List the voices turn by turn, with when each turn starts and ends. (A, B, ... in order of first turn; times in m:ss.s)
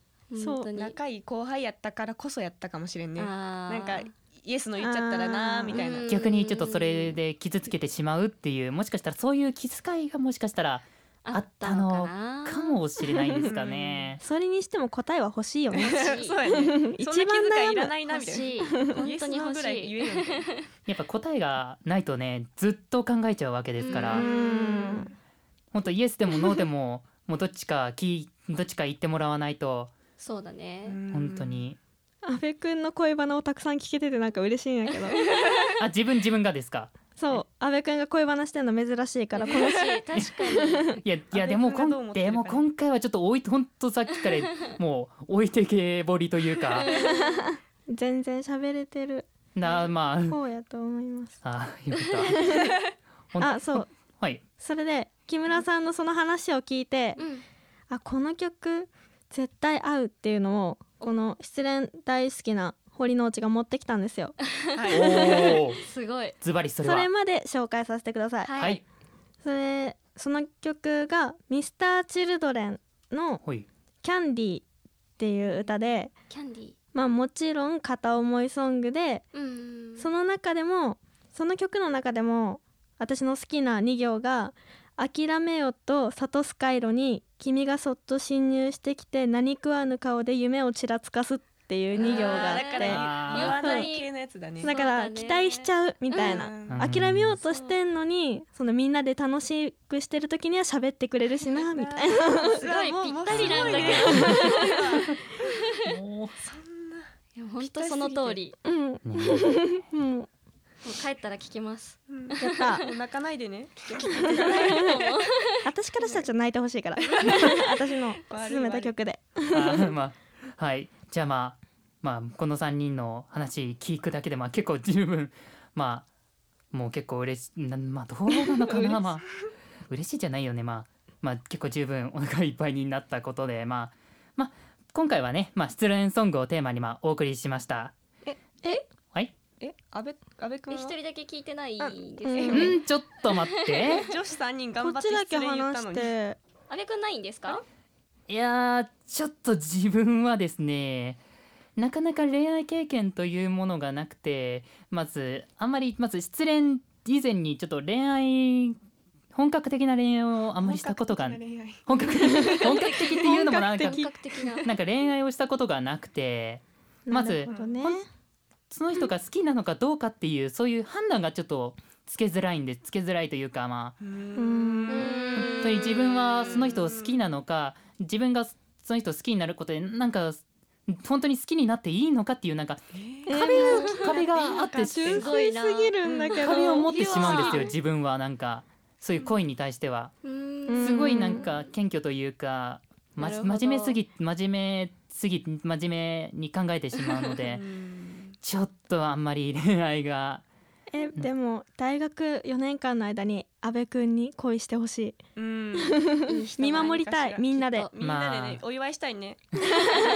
0:00.3-0:00.9 A
0:00.4-0:00.7 B
0:00.7-0:06.1 C
0:03.2-0:04.1 A
0:04.8-0:05.8 B
0:05.7-0:07.2 A
0:06.1-0:14.2 D
0:11.2-0:13.4 A
0:13.4-0:14.1 C
0:14.2-0:17.9 B
0:15.7-0:20.5 C
0:15.7-0:16.4 A
0:18.1-0:20.6 A
0:18.6-0:19.0 B
0:20.9-0:24.2 D
0:23.8-0:24.3 A
0:23.9-0:25.1 C
0:24.2-0:25.1 B
0:25.7-0:29.9 D
0:30.2-0:31.0 A
0:30.8-0:31.6 C
0:31.1-0:31.8 D
0:32.2-0:35.3 B
0:35.8-0:37.4 D
0:37.2-0:41.0 B
0:39.3-0:41.0 A
0:41.0-0:46.9 D
0:41.3-0:42.6 C
0:46.7-0:47.4 A
0:46.8-0:49.3 B
0:49.5-0:50.4 D
0:50.3-0:51.4 B
0:51.4-0:52.6 D
0:52.3-0:52.8 B
0:53.3-0:54.4 D
0:53.4-0:53.9 B
0:54.6-0:57.2 B
0:57.2-0:57.4 A
0:57.9-1:04.4 B
1:04.7-1:05.1 C
1:04.9-1:05.8 D
1:05.0-1:06.3 A
1:06.4-1:07.1 D
1:06.8-1:08.5 B
1:08.4-1:08.8 A
1:08.6-1:08.8 D
1:09.4-1:13.4 B
1:14.0-1:14.6 B
1:15.2-1:16.1 B
1:16.3-1:16.7 A
1:16.9-1:19.3 B
1:19.3-1:20.1 A
1:20.0-1:33.9 B
1:31.9-1:34.7 C
1:31.9-1:34.1 A
1:32.9-1:33.6 D
1:34.6-1:42.6 B
1:34.6-1:36.4 A
1:36.1-1:36.9 C
1:36.7-1:37.4 D
1:37.5-1:37.7 A
1:41.5-1:45.5 C
1:42.2-1:45.0 A
1:43.3-1:44.4 D
1:43.5-1:44.8 B
1:45.8-1:46.3 D
1:46.4-1:47.1 C
1:47.4-1:48.5 A
1:47.6-1:48.4 C
1:48.6-1:50.3 B
1:49.0-1:49.6 D
1:50.8-1:52.8 A
1:52.1-1:55.0 C
1:52.4-1:52.8 B
1:54.0-1:55.7 A
1:54.3-1:55.0 B
1:55.6-1:59.9 B
1:56.0-1:56.3 C
1:57.2-1:57.5 A
1:57.2-1:57.6 C
1:58.3-1:58.9 C
1:59.5-2:06.1 D
2:06.7-2:09.4 D
2:09.9-2:17.9 D
2:18.2-2:18.8 C
2:19.6-2:21.0 C
2:20.7-2:22.8 A
2:21.8-2:22.7 C
2:22.2-2:22.8 B
2:22.5-2:24.1 D
2:23.3-2:24.0 A
2:23.9-2:26.1 C
2:24.8-2:26.4 B
2:26.7-2:27.6 A
2:28.3-2:31.2 D
2:31.8-2:38.8 D
2:39.3-2:44.0 D
2:40.6-2:43.1 C
2:42.6-2:44.7 A
2:43.2-2:44.1 B
2:44.6-2:48.0 D
2:47.1-2:48.1 B
2:47.4-2:47.7 C
2:48.7-2:54.0 D
2:54.0-2:57.1 C
2:54.4-2:55.3 B
2:54.9-2:56.5 A
2:55.3-3:05.2 D
3:02.9-3:03.3 C
3:03.3-3:04.2 B
3:03.3-3:07.7 A
3:04.1-3:05.2 C
3:04.9-3:07.5 B
3:06.4-3:10.1 D
3:10.2-3:11.5 A
3:10.7-3:11.5 B
3:10.8-3:17.6 D
3:13.2-3:14.0 A
3:17.4-3:18.4 C
3:18.4-3:20.4 D
3:20.9-3:25.2 B
3:25.4-3:26.1 C
3:25.8-3:27.9 B
3:26.3-3:27.0 A
3:26.7-3:29.4 C
3:27.5-3:27.9 A
3:28.0-3:28.6 D